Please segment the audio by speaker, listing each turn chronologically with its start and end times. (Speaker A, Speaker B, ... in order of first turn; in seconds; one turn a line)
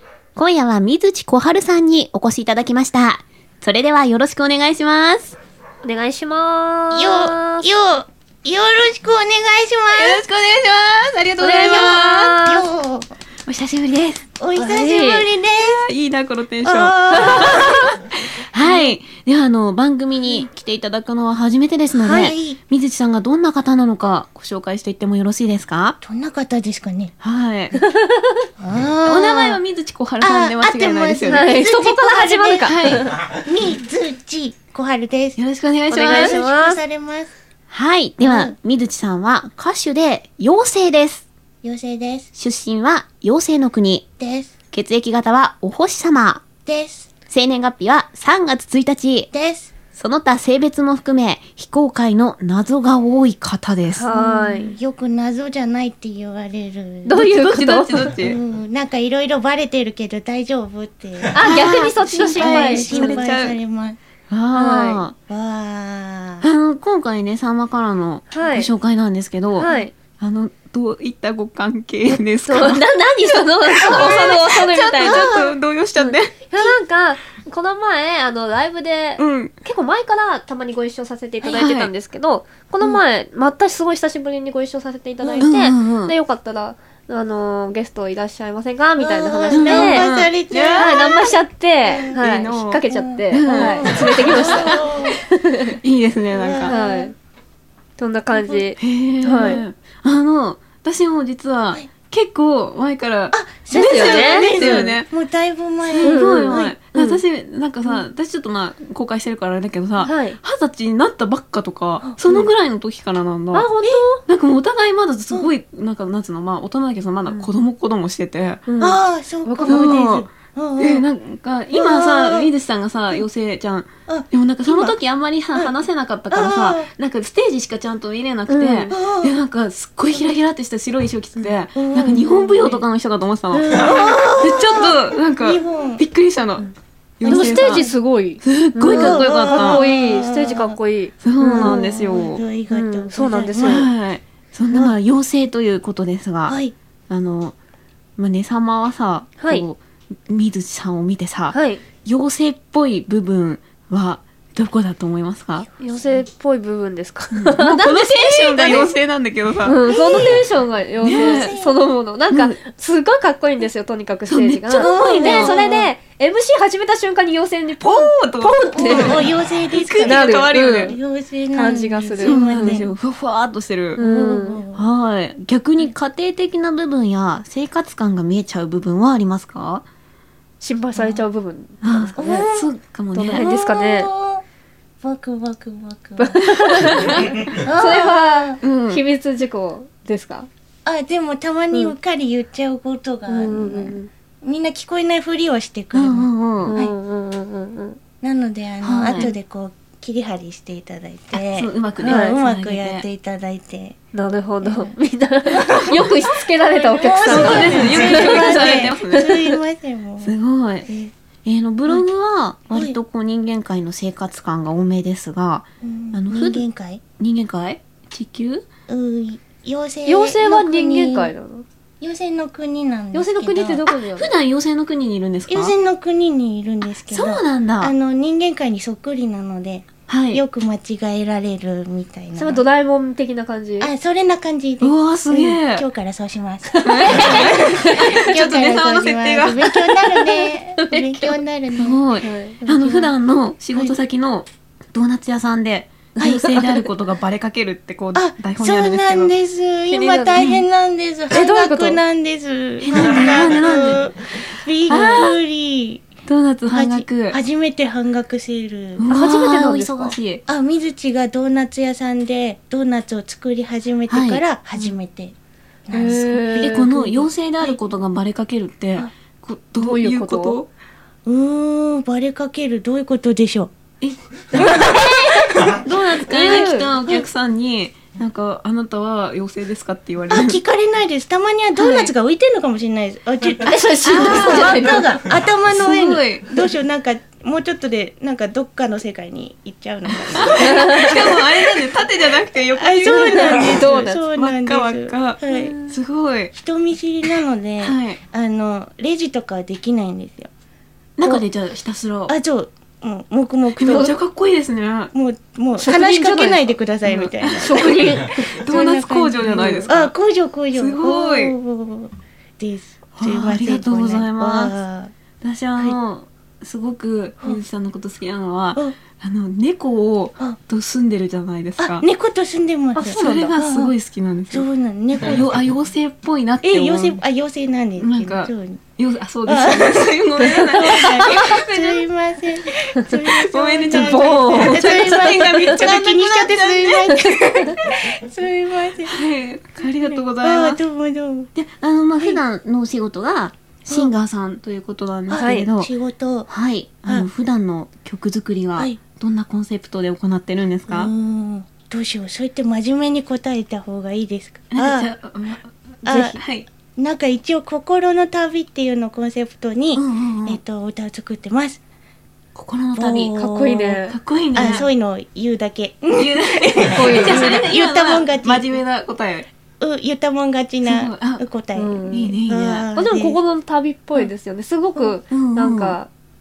Speaker A: 0.3-5.3
Speaker B: 5.8-7.7
Speaker C: 6.9-10.2
Speaker A: 9.9-12.4
Speaker B: 11.4-12.7
Speaker C: 12.4-13.1
Speaker A: 13.5-14.2
Speaker C: 14.4-15.8
Speaker B: 14.6-15.3
Speaker A: 15.6-26.0
Speaker C: 16.6-17.8
Speaker B: 17.1-17.9
Speaker C: 18.6-18.9
Speaker C: 21.9-22.6
Speaker B: 22.0-22.3
Speaker C: 26.0-27.1
Speaker A: 27.2-27.7
Speaker B: 27.7-28.4
Speaker C: 28.6-29.6
Speaker A: 29.0-31.5
Speaker C: 30.2-32.7
Speaker B: 31.2-33.1
Speaker A: 32.6-33.2
Speaker C: 33.5-35.4
Speaker A: 35.4-36.4
Speaker B: 35.9-36.8
Speaker C: 36.0-37.3
Speaker A: 37.7-41.2
Speaker C: 38.2-38.5
Speaker C: 41.6-42.3
Speaker A: 42.4-44.0
Speaker C: 44.2-44.5
Speaker A: 44.7-46.5
Speaker C: 46.6-47.1
Speaker A: 47.3-49.3
Speaker C: 49.3-49.7
Speaker A: 49.9-54.1
Speaker B: 53.9-54.7
Speaker C: 54.1-57.2
Speaker B: 57.0-58.1
Speaker A: 57.1-58.4
Speaker C: 58.2-61.5
Speaker B: 61.3-63.3
Speaker A: 61.4-63.5
Speaker C: 62.2-64.0
Speaker A: 64.3-65.1
Speaker B: 64.5-65.0
Speaker C: 65.3-66.4
Speaker A: 66.4-76.7
Speaker B: 68.3-68.7
Speaker B: 69.6-69.9
Speaker B: 72.4-90.1
Speaker C: 73.8-74.4
Speaker A: 79.2-79.5
Speaker A: 81.4-81.9
Speaker A: 85.4-86.1
Speaker C: 89.0-91.3
Speaker A: 89.5-91.1
Speaker B: 90.7-95.8
Speaker C: 91.8-92.2
Speaker A: 92.2-94.8
Speaker C: 92.9-95.2
Speaker A: 95.7-96.7
Speaker C: 96.3-97.1
Speaker B: 96.6-97.1
Speaker B: 98.0-99.6
Speaker C: 98.3-98.7
Speaker A: 98.8-105.1
Speaker C: 103.3-106.7
Speaker B: 103.7-104.9
Speaker A: 105.9-113.7
Speaker B: 106.0-107.2
Speaker B: 110.0-110.4
Speaker B: 113.5-114.2
Speaker A: 114.2-118.7
Speaker B: 118.7-120.0
Speaker C: 118.8-121.0
Speaker A: 119.7-137.8
Speaker C: 121.7-122.5
Speaker C: 124.1-125.0
Speaker C: 126.3-126.9
Speaker B: 128.5-128.9
Speaker C: 128.9-129.3
Speaker C: 131.8-132.8
Speaker C: 133.5-136.0
Speaker B: 137.2-141.8
Speaker A: 138.4-139.8
Speaker C: 138.9-140.8
Speaker A: 141.2-142.4
Speaker C: 141.4-143.8
Speaker B: 142.7-143.9
Speaker A: 143.6-147.5
Speaker C: 146.4-146.7
Speaker A: 148.2-155.7
Speaker B: 149.4-149.7
Speaker B: 151.5-151.8
Speaker C: 155.7-156.2
Speaker B: 155.8-158.9
Speaker A: 157.3-159.8
Speaker B: 159.6-169.3
Speaker C: 159.8-160.5
Speaker A: 161.0-161.5
Speaker C: 161.1-161.7
Speaker A: 162.3-162.6
Speaker A: 164.2-165.9
Speaker C: 164.8-165.8
Speaker A: 167.8-170.9
Speaker C: 168.8-172.9
Speaker B: 170.0-171.0
Speaker B: 171.5-172.9
Speaker A: 172.2-174.0
Speaker B: 173.9-174.6
Speaker C: 173.9-174.8
Speaker A: 174.7-179.8
Speaker B: 180.6-182.5
Speaker C: 180.9-181.2
Speaker A: 181.8-183.4
Speaker C: 182.2-182.7
Speaker B: 183.1-184.1
Speaker C: 183.3-184.4
Speaker C: 185.0-186.4
Speaker B: 186.2-190.5
Speaker A: 186.5-187.2
Speaker C: 187.6-188.6
Speaker A: 188.6-189.0
Speaker C: 190.8-196.9
Speaker B: 193.3-194.1
Speaker A: 195.9-196.7
Speaker B: 196.6-198.0
Speaker C: 198.2-203.9
Speaker A: 198.8-199.3
Speaker A: 201.3-203.1
Speaker B: 202.0-202.4
Speaker B: 204.1-209.6
Speaker C: 204.6-204.9
Speaker C: 205.6-210.3
Speaker A: 205.7-206.0
Speaker A: 207.1-209.4
Speaker A: 210.2-210.9
Speaker C: 210.9-211.1
Speaker A: 211.4-216.6
Speaker C: 212.7-213.0
Speaker C: 215.8-217.0
Speaker A: 217.2-218.7
Speaker C: 218.9-221.3
Speaker B: 220.1-221.7
Speaker C: 222.0-223.8
Speaker B: 223.1-224.3
Speaker A: 223.9-225.7
Speaker C: 225.5-232.6
Speaker A: 227.1-227.9
Speaker A: 230.1-230.4
Speaker B: 232.3-233.9
Speaker C: 233.8-242.0
Speaker A: 234.8-235.9
Speaker B: 236.7-238.2
Speaker A: 236.8-240.4
Speaker B: 240.8-241.4
Speaker A: 241.8-249.3
Speaker B: 242.2-242.6
Speaker C: 242.6-243.1
Speaker C: 246.2-246.7
Speaker C: 248.1-256.0
Speaker B: 249.9-250.5
Speaker B: 251.3-252.0
Speaker A: 252.8-254.1
Speaker A: 254.9-255.3
Speaker B: 254.9-255.3
Speaker A: 256.3-257.4
Speaker C: 256.7-259.1
Speaker A: 259.0-260.4
Speaker B: 259.1-260.1
Speaker C: 260.5-265.3
Speaker A: 264.1-264.4
Speaker C: 265.9-267.7
Speaker B: 265.9-266.9
Speaker A: 266.5-270.7
Speaker B: 269.7-270.6
Speaker C: 271.2-273.7
Speaker A: 274.0-280.6
Speaker C: 274.6-274.9
Speaker B: 274.6-276.9
Speaker C: 280.3-291.2
Speaker A: 281.8-282.1
Speaker B: 283.6-285.2
Speaker A: 284.0-285.1
Speaker A: 285.7-286.6
Speaker A: 290.2-296.5
Speaker B: 290.6-291.2
Speaker C: 292.8-295.8
Speaker B: 293.0-294.2
Speaker B: 295.5-295.9
Speaker C: 296.5-300.5
Speaker A: 297.3-298.2
Speaker A: 301.2-302.3
Speaker C: 302.3-304.2
Speaker A: 303.8-305.1
Speaker B: 303.9-304.2
Speaker C: 305.1-308.1
Speaker B: 305.8-306.7
Speaker A: 307.0-310.1
Speaker B: 307.6-308.4
Speaker C: 308.6-315.1
Speaker A: 310.7-311.6
Speaker A: 313.1-314.7
Speaker A: 315.4-322.0
Speaker C: 321.8-323.9
Speaker B: 322.9-323.5
Speaker A: 323.1-324.7
Speaker C: 324.5-325.6
Speaker A: 325.2-327.2
Speaker C: 326.6-328.8
Speaker A: 328.0-332.1
Speaker C: 329.5-330.1
Speaker B: 330.4-331.5
Speaker C: 330.7-339.1
Speaker A: 333.3-337.7
Speaker B: 333.9-335.8
Speaker A: 339.1-340.8
Speaker C: 339.9-341.5
Speaker A: 341.5-345.9
Speaker C: 345.3-346.5
Speaker B: 345.3-345.7
Speaker A: 346.5-351.1
Speaker C: 350.9-355.1
Speaker A: 354.7-356.7
Speaker C: 356.0-356.4
Speaker C: 356.9-361.8
Speaker A: 359.9-360.6
Speaker A: 362.5-363.3
Speaker C: 362.9-364.0
Speaker B: 363.3-364.1
Speaker A: 364.0-364.9
Speaker C: 364.5-368.6
Speaker A: 366.2-369.5
Speaker B: 366.9-367.4
Speaker C: 369.8-373.4
Speaker A: 370.8-371.4
Speaker B: 371.7-372.3
Speaker A: 372.0-372.9
Speaker B: 372.9-376.1
Speaker A: 375.3-375.9